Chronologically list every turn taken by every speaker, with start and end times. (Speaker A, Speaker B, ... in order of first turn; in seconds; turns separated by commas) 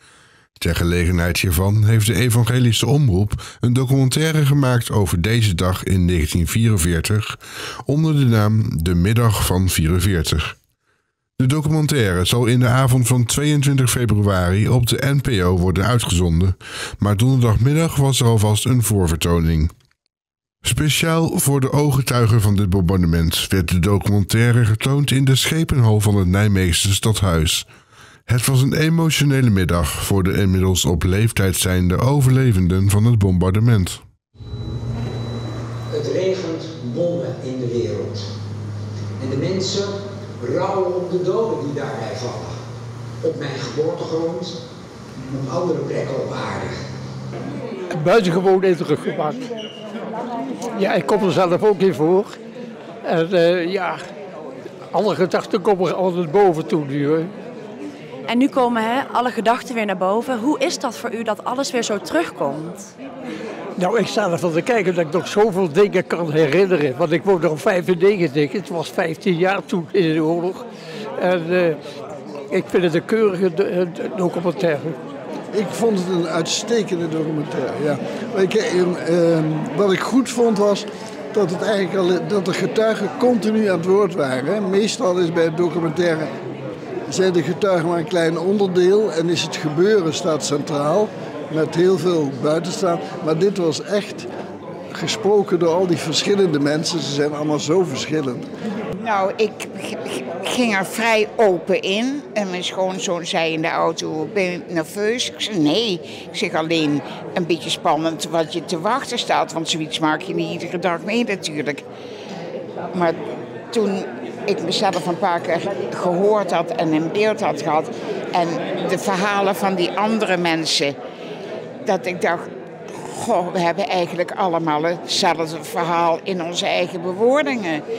Speaker A: 0.6-10.6, Speaker A: 11.4-19.7, Speaker A: 20.6-27.7, Speaker A: 28.3-34.0, Speaker B: 35.9-38.3, Speaker B: 39.2-42.5, Speaker B: 43.2-44.6, Speaker B: 45.3-46.8, Speaker C: 47.9-49.4, Speaker C: 50.7-52.4, Speaker C: 53.0-54.0, Speaker C: 54.9-57.3, Speaker D: 58.3-62.9, Speaker C: 63.8-70.7, Speaker C: 71.2-71.8, Speaker C: 72.5-75.0, Speaker E: 75.5-86.3, Speaker E: 87.1-94.3, Speaker E: 94.9-98.5, Speaker F: 99.0-111.8, Speaker F: 112.9-113.2, Speaker F: 113.7-121.0, Speaker F: 121.8-127.8